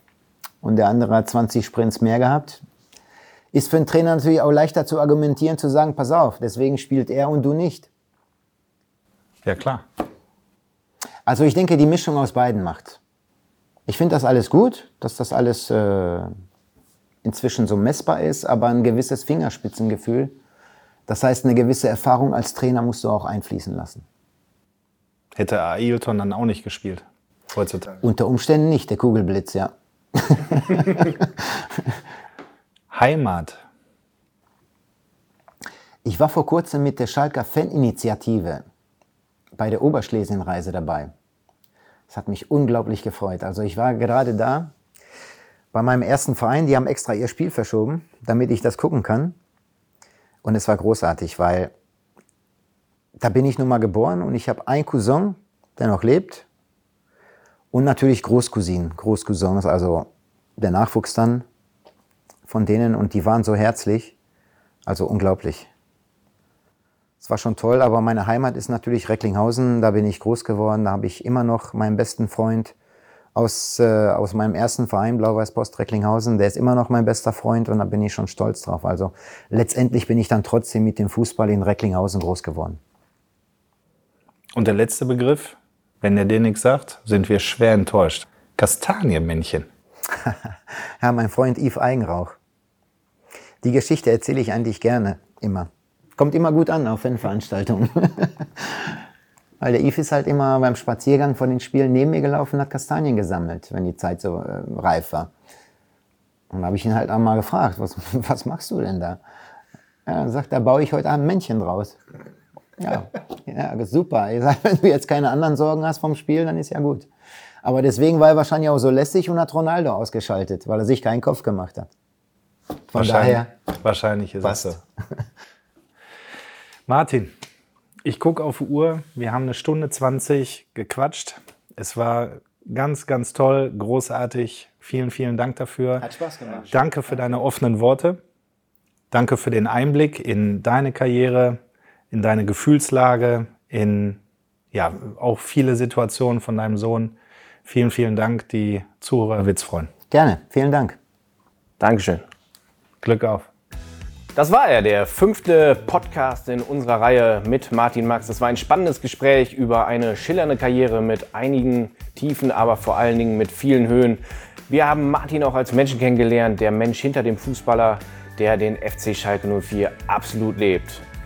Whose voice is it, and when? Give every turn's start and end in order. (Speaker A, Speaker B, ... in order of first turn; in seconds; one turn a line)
Speaker A: 0.6-2.6
Speaker A: 3.5-7.9
Speaker B: 9.4-9.8
Speaker A: 11.3-13.0
Speaker A: 13.9-16.3
Speaker A: 17.2-20.4
Speaker A: 21.1-24.1
Speaker B: 25.4-28.0
Speaker A: 28.0-32.0
Speaker B: 32.9-33.6
Speaker A: 36.0-38.6
Speaker A: 39.5-41.1
Speaker A: 42.1-44.7
Speaker A: 45.7-49.4
Speaker A: 50.4-51.7
Speaker A: 53.2-56.5
Speaker A: 57.7-61.5
Speaker A: 62.5-64.2
Speaker A: 64.9-65.7
Speaker A: 67.2-72.8
Speaker A: 73.3-82.8
Speaker B: 84.5-89.7
Speaker A: 90.2-92.4
Speaker A: 93.6-99.0
Speaker A: 99.6-105.3
Speaker A: 106.5-109.2
Speaker A: 110.1-112.0
Speaker A: 112.8-117.1
Speaker A: 117.6-121.9
Speaker A: 122.9-123.5
Speaker B: 123.0-124.8
Speaker A: 124.4-124.8
Speaker B: 126.9-127.3
Speaker B: 128.1-136.1
Speaker A: 136.0-137.3
Speaker B: 136.7-138.2
Speaker B: 139.1-141.6
Speaker B: 142.1-144.2
Speaker B: 144.7-149.9
Speaker A: 150.1-151.0
Speaker C: 151.8-152.3
Speaker B: 153.0-153.5
Speaker C: 154.3-171.1